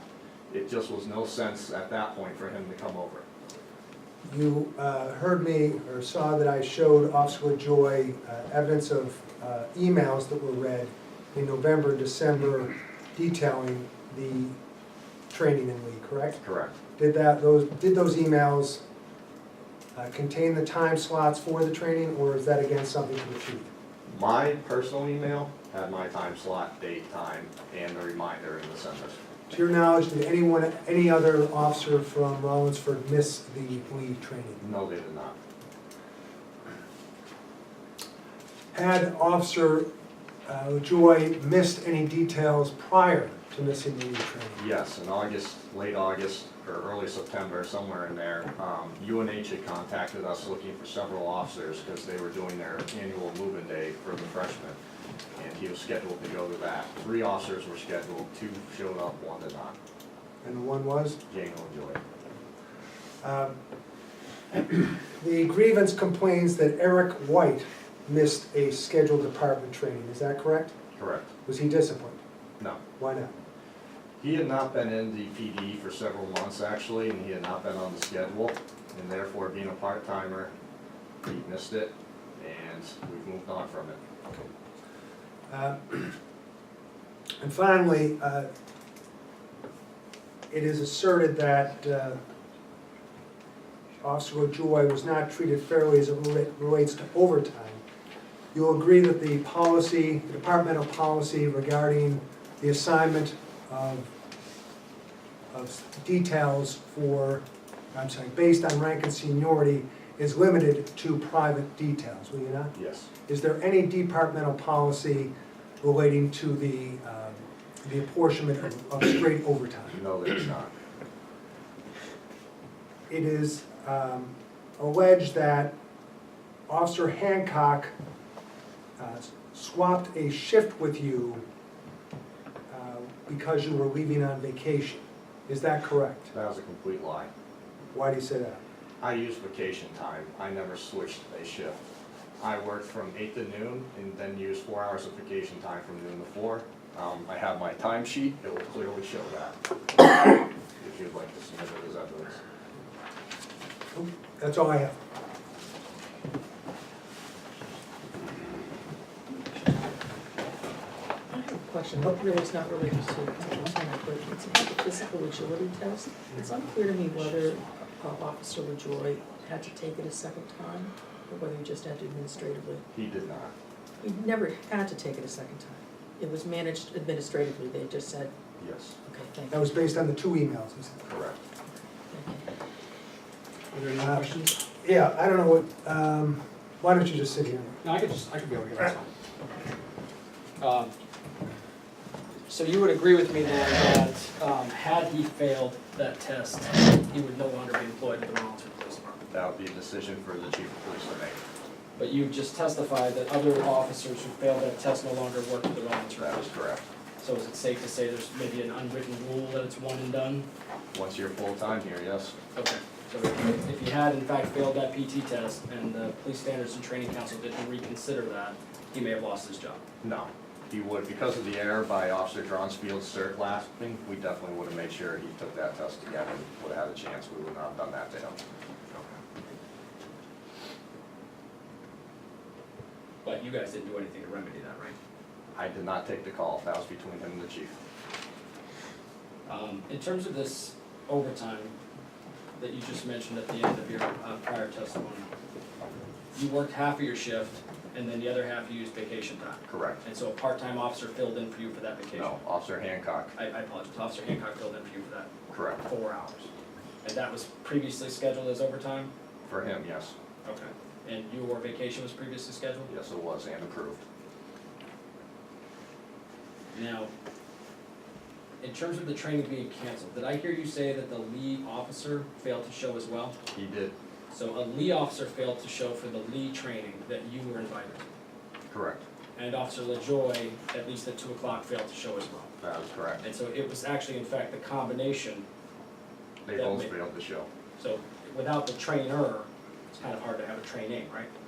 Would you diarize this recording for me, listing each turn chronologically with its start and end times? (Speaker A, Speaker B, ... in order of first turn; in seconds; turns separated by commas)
Speaker A: 0.5-3.3, Speaker B: 4.3-14.6, Speaker B: 15.3-16.4, Speaker A: 16.4-16.8, Speaker B: 17.0-18.8, Speaker B: 19.9-23.7, Speaker A: 24.1-29.2, Speaker B: 29.5-34.6, Speaker A: 34.6-35.4, Speaker B: 38.7-39.9, Speaker B: 40.5-44.6, Speaker A: 44.6-54.8, Speaker A: 55.4-59.8, Speaker B: 60.4-61.2, Speaker A: 61.3-62.0, Speaker B: 63.2-63.5, Speaker B: 64.7-70.8, Speaker A: 71.0-71.3, Speaker B: 71.5-72.2, Speaker B: 73.0-73.3, Speaker A: 74.2-80.5, Speaker A: 81.2-84.0, Speaker B: 85.5-86.2, Speaker B: 87.4-88.5, Speaker B: 90.5-92.2, Speaker B: 94.0-97.8, Speaker B: 98.5-104.1, Speaker B: 105.5-112.7, Speaker A: 112.8-113.1, Speaker B: 113.3-120.0, Speaker A: 120.0-120.7, Speaker B: 123.1-125.8, Speaker B: 126.7-127.9, Speaker B: 129.0-131.4, Speaker B: 132.7-136.3, Speaker A: 136.3-137.3, Speaker B: 137.9-138.6, Speaker A: 139.0-141.8, Speaker A: 142.4-149.6, Speaker A: 150.8-152.4, Speaker B: 153.9-154.9, Speaker C: 161.3-172.8, Speaker A: 172.9-173.5, Speaker C: 174.0-178.3, Speaker A: 178.6-179.0, Speaker C: 179.1-179.7, Speaker B: 179.5-181.1, Speaker A: 181.1-181.4, Speaker C: 182.1-182.5, Speaker D: 183.7-184.6, Speaker B: 184.0-184.3, Speaker B: 184.8-187.8, Speaker D: 187.8-189.1, Speaker D: 190.6-190.9, Speaker D: 192.5-199.2, Speaker A: 199.3-201.4, Speaker D: 202.0-206.5, Speaker A: 206.2-206.9, Speaker D: 207.2-210.5, Speaker A: 210.9-212.3, Speaker D: 212.6-219.8, Speaker A: 220.0-228.4, Speaker D: 233.2-235.0, Speaker A: 235.6-237.8, Speaker D: 239.5-241.8, Speaker D: 242.6-245.3, Speaker D: 246.3-252.4, Speaker A: 249.7-250.0, Speaker A: 252.1-253.3, Speaker D: 253.3-255.3, Speaker A: 255.5-255.8, Speaker D: 255.8-256.5, Speaker D: 257.0-259.1, Speaker A: 259.4-260.1, Speaker D: 260.4-262.9, Speaker A: 262.9-264.0, Speaker D: 266.7-267.1, Speaker D: 268.6-273.4, Speaker A: 273.5-273.9, Speaker D: 274.3-278.1, Speaker A: 278.7-279.1, Speaker D: 279.4-282.5, Speaker A: 282.6-283.2, Speaker D: 283.2-285.5, Speaker A: 286.5-287.5, Speaker D: 286.6-286.9, Speaker D: 287.8-291.3